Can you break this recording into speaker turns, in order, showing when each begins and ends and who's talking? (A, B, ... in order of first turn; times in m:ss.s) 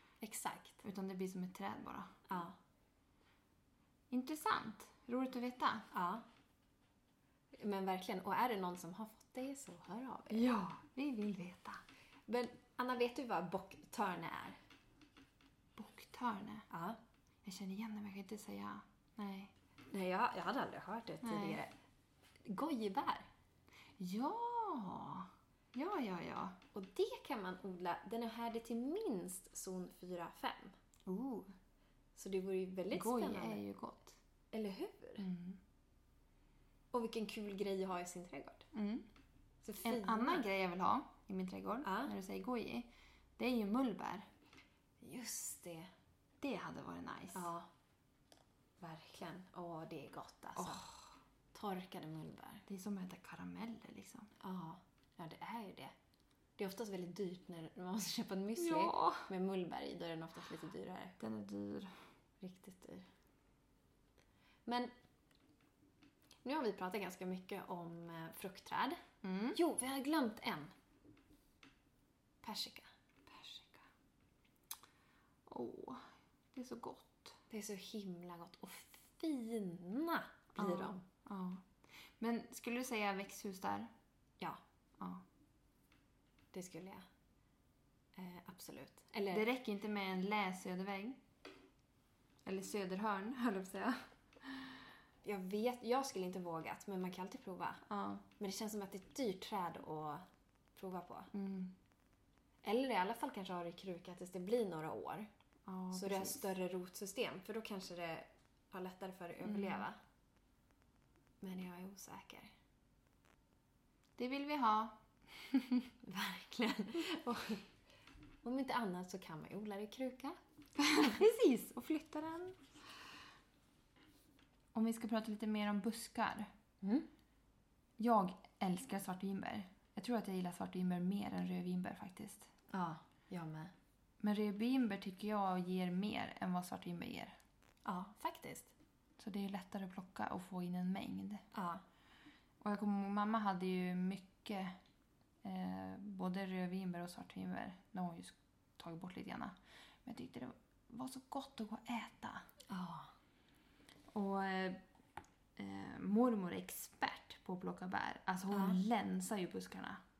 0:00.2-0:00.8 A
0:00.8-0:02.1 B
0:02.3-0:02.6 A
0:04.1-0:05.9 B
0:05.9-0:06.2 A
0:07.5-0:10.5 A
0:10.3-0:11.8 B
0:12.3-0:14.6 A
0:15.8-0:16.7 B
0:16.7-0:17.0 A
0:17.4-0:19.5 B
0:19.9-0:21.7 A
0:21.2-0:21.6 B
0:22.4-0:23.3 A
0:24.0-0:26.6 B
0:26.7-0:30.7 A
0:31.1-0:31.5 B
0:32.1-0:33.6 A
0:32.9-0:34.2 B
0:34.5-0:35.2 A
0:35.2-0:35.6 B
0:36.9-0:38.6 A
0:38.7-0:39.0 B
0:39.6-0:40.4 A
0:39.8-0:44.3 B
0:41.8-0:42.1 A
0:45.0-0:45.9 A
0:46.4-0:47.5 B
0:47.3-0:47.7 A
0:48.8-0:50.8 A
0:50.6-0:51.1 B
0:51.5-0:52.6 A
0:52.7-0:54.3 B
0:54.4-0:55.9 A
0:56.6-1:01.2 A
0:58.6-0:59.3 B
1:01.2-1:01.9 B
1:02.4-1:03.1 A
1:04.6-1:04.9 A
1:06.4-1:09.0 A
1:09.2-1:09.6 B
1:09.5-1:10.7 A
1:12.4-1:12.9 A
1:13.3-1:13.8 B
1:15.5-1:17.4 B
1:17.5-1:21.0 A
1:20.5-1:21.6 B
1:22.2-1:23.9 B
1:26.5-1:27.0 A
1:28.1-1:29.4 A
1:29.3-1:31.2 B
1:32.4-1:34.8 B
1:35.2-1:37.8 A
1:37.9-1:38.2 B
1:38.4-1:40.2 A
1:40.7-1:41.3 A
1:41.3-1:41.7 B
1:42.6-1:45.3 A
1:45.7-1:46.5 B
1:45.9-1:50.0 A
1:49.4-1:49.8 B
1:51.4-1:52.5 A
1:54.2-1:55.9 B
1:56.0-1:57.6 A
1:58.4-2:00.4 A
2:00.8-2:02.6 B
2:04.7-2:06.5 B
2:06.8-2:07.1 A
2:08.0-2:12.5 B
2:12.7-2:13.7 A
2:14.2-2:17.4 B
2:17.8-2:18.7 A
2:19.2-2:21.4 B
2:21.5-2:21.8 A
2:22.6-2:24.8 B
2:25.4-2:32.4 B
2:32.7-2:33.1 A
2:34.1-2:34.8 B
2:35.6-2:40.0 B
2:38.5-2:38.8 A